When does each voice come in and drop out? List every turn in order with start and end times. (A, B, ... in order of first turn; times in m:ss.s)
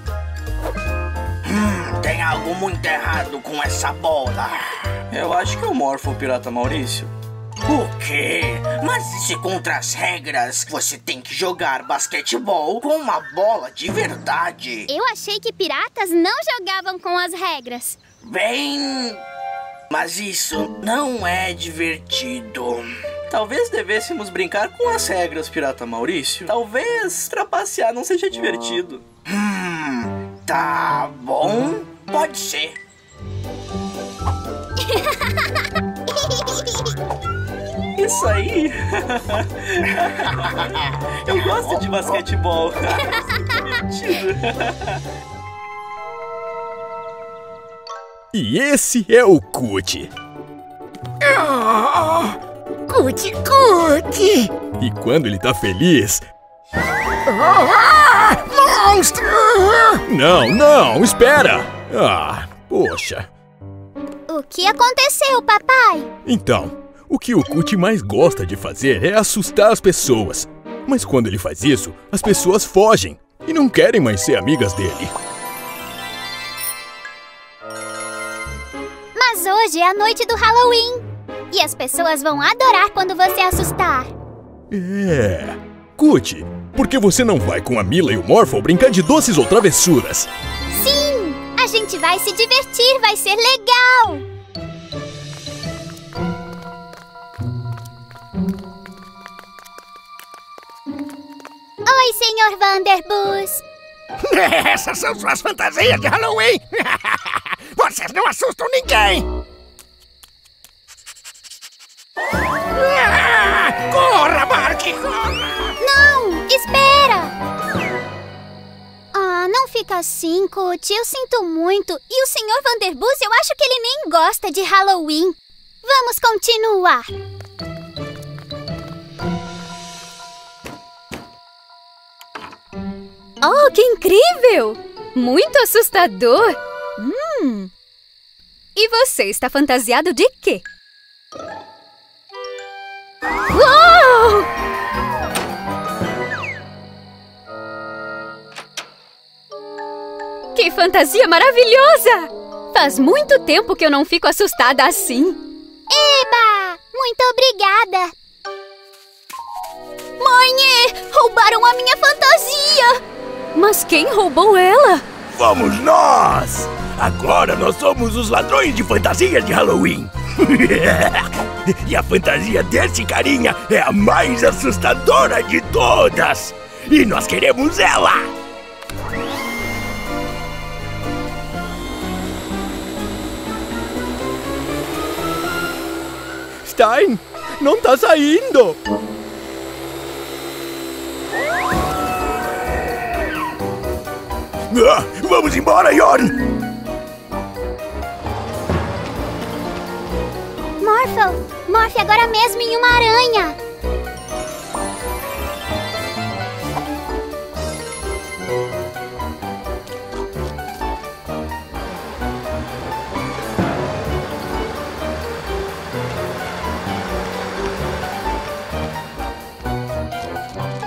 0:01.4-0:04.8 A
0:05.1-0:07.1 B
0:07.6-0:14.9 A
0:14.9-0:18.0 C
0:18.2-0:19.2 A
0:19.9-0:22.9 A
0:23.3-0:29.0 B
0:29.3-0:32.8 A
0:34.9-0:35.5 C
0:36.2-0:36.9 C
0:37.9-0:45.0 B
0:48.3-0:50.1 D
0:51.2-0:52.4 E
0:52.9-0:54.5 E
0:54.8-0:56.2 D
0:57.2-1:00.0 E
1:00.1-1:03.3 D
1:04.3-1:06.1 C
1:06.2-1:15.1 D
1:19.1-1:24.1 C
1:24.7-1:30.3 D
1:30.7-1:34.2 C
1:41.8-1:43.6 C
1:44.2-1:49.2 E
1:52.7-1:55.7 E
1:55.8-1:57.3 C
1:59.1-2:07.1 C
2:13.4-2:16.6 F
2:17.0-2:17.7 C
2:18.8-2:20.6 F
2:23.5-2:24.5 F
2:30.5-2:35.4 F
2:35.9-2:38.1 C
2:40.2-2:43.0 F
2:43.5-2:45.0 F
2:45.3-2:58.3 G
3:06.6-3:08.8 D
3:14.7-3:16.3 G
3:20.8-3:23.6 C